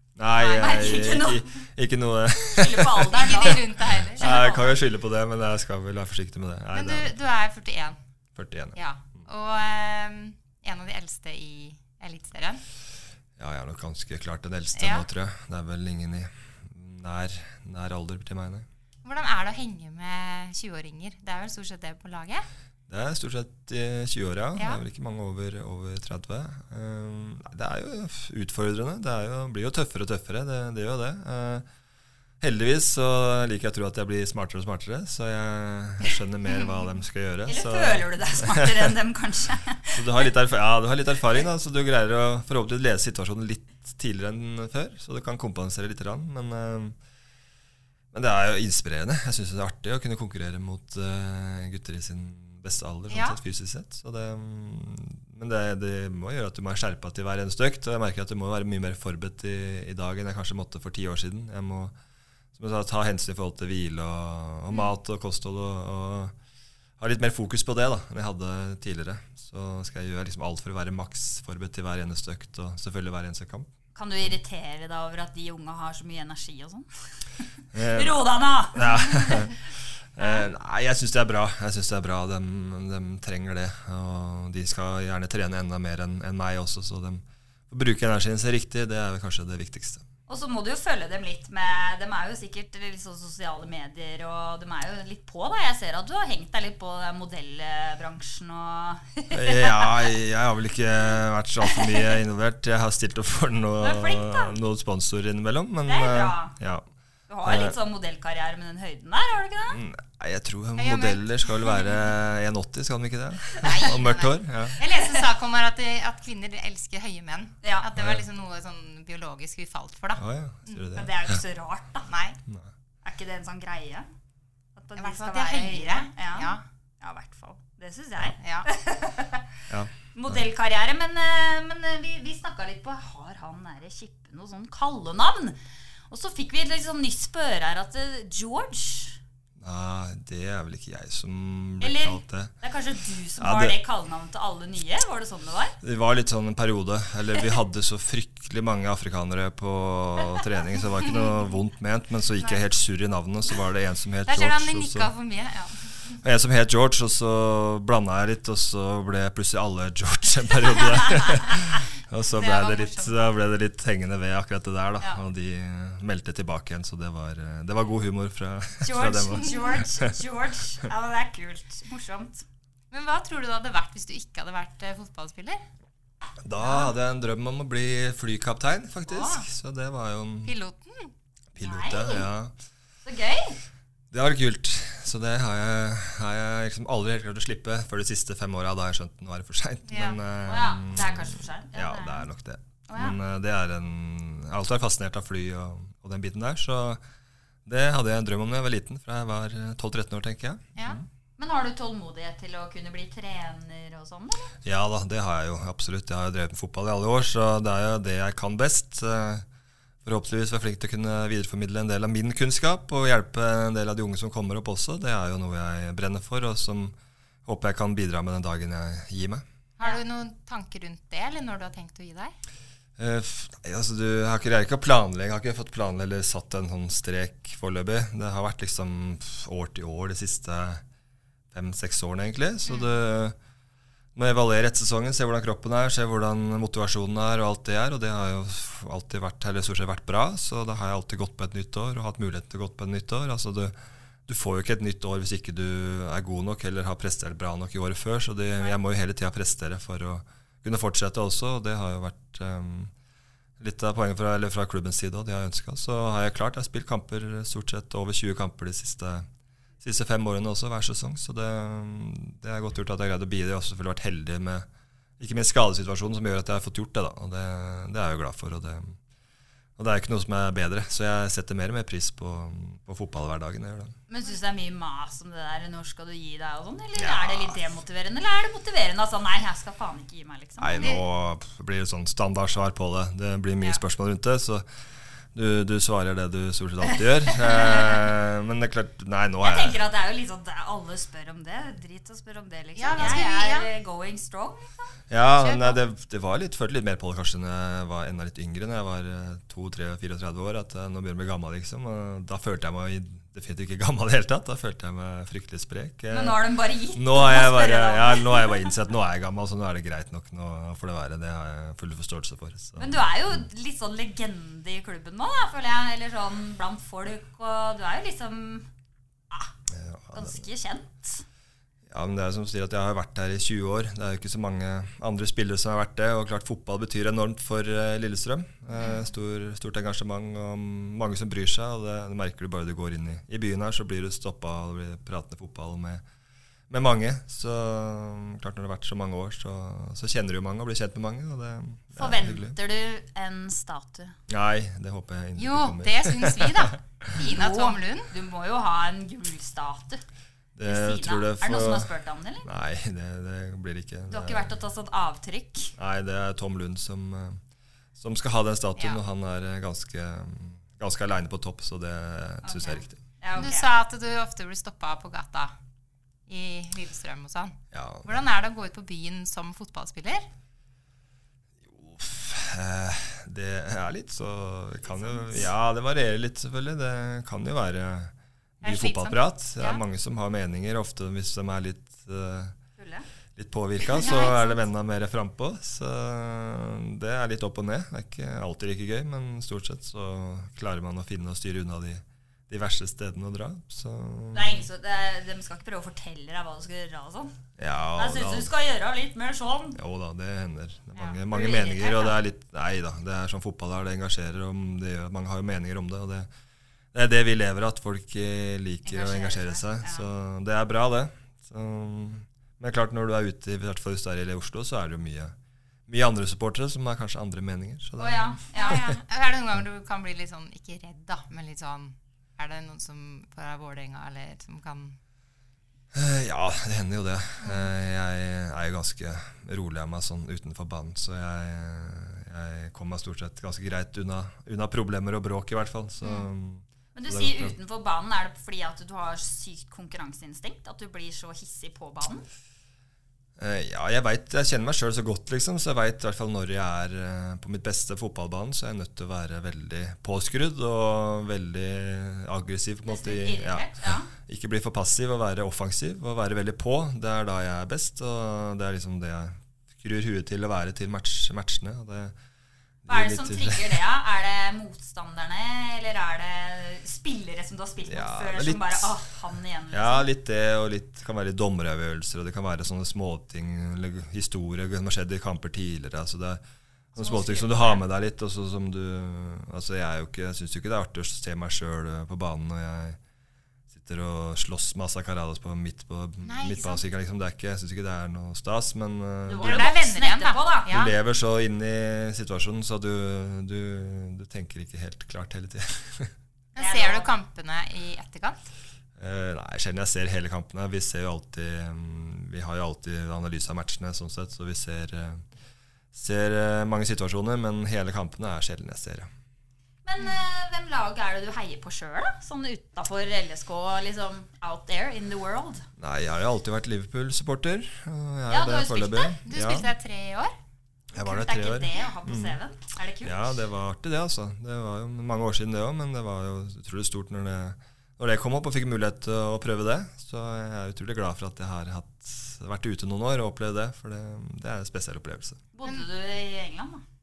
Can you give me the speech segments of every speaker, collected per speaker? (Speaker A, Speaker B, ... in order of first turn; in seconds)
Speaker A: 0.1-7.2, 8.3-9.2, 13.4-18.7, 22.9-31.7, 32.4-38.9, 39.9-47.0, 48.1-61.9, 62.5-66.3, 67.0-73.7, 77.7-79.6, 80.1-90.0, 99.3-106.8, 107.4-107.8, 109.7-114.8, 118.0-118.2, 120.2-121.4, 129.7-130.4, 139.6-142.5, 143.4-143.8, 145.8-155.1, 156.2-170.1, 176.4-180.5, 181.5-182.5, 184.1-197.0, 197.7-201.0, 204.6-209.4, 210.0-219.4, 223.0-230.8, 231.5-233.3, 234.1-243.7, 244.3-252.9, 253.6-259.3, 259.8-264.7, 265.2-269.0, 269.8-273.9, 276.9-277.6, 280.6-284.6, 285.3-289.8, 292.9-293.2, 295.1-306.4, 306.9-313.4, 319.7-320.4, 321.9-336.0, 336.7-342.6, 344.3-347.1, 350.6-351.9, 352.4-354.5, 355.8-357.4, 358.0-363.0, 367.7-368.2, 371.6-382.5, 383.4-394.6, 397.6-398.5, 399.7-406.3, 406.9-415.3, 415.9-418.9, 425.9-437.5, 443.4-462.1, 462.8-463.8, 467.9-469.0, 469.7-476.4, 476.9-483.0, 483.7-489.7, 490.7-496.1, 499.0-505.2, 505.9-509.1, 515.8-519.7, 520.9-522.4, 523.0-535.4
Speaker B: 0.4-1.4, 2.4-3.6, 4.2-4.7, 37.5-40.0, 73.9-76.9, 77.8-79.5, 90.3-100.1, 103.8-104.6, 105.8-106.5, 107.3-109.8, 114.8-115.2, 117.6-117.9, 120.9-122.1, 123.0-124.1, 124.8-129.4, 130.1-135.6, 136.1-139.2, 141.8-145.8, 168.8-172.4, 181.6-182.3, 183.0-183.5, 190.4-192.2, 192.9-193.1, 201.4-204.5, 274.1-281.0, 287.5-288.0, 289.4-294.9, 306.1-308.7, 312.8-318.7, 320.1-321.2, 341.9-344.1, 347.2-350.0, 350.6-352.5, 354.1-355.7, 362.4-363.7, 382.8-383.1, 384.0-384.4, 394.3-397.3, 397.9-399.8, 401.3-402.2, 408.9-410.1, 418.0-418.9, 436.9-442.2, 452.9-454.1, 462.9-470.1, 477.0-477.8, 489.2-490.7, 496.6-497.1, 509.8-515.7, 518.3-519.2, 520.9-523.3, 535.5-536.8
Speaker C: 3.1-4.5, 6.7-8.0, 8.7-12.6, 14.8-15.1, 19.0-22.4, 24.6-24.8, 53.1-53.4, 110.8-111.2, 113.6-120.8, 122.1-122.4, 125.0-126.6, 128.4-128.7, 154.2-156.1, 162.3-163.2, 172.9-175.6, 179.1-179.4, 180.4-181.1, 189.9-190.2, 219.8-222.3, 292.8-293.7, 295.4-295.8, 345.4-348.1, 363.3-365.5, 366.3-370.3, 378.6-379.8, 384.0-384.4, 418.5-425.0, 427.4-427.7, 486.2-486.8, 489.4-490.9, 496.5-498.4, 519.3-520.3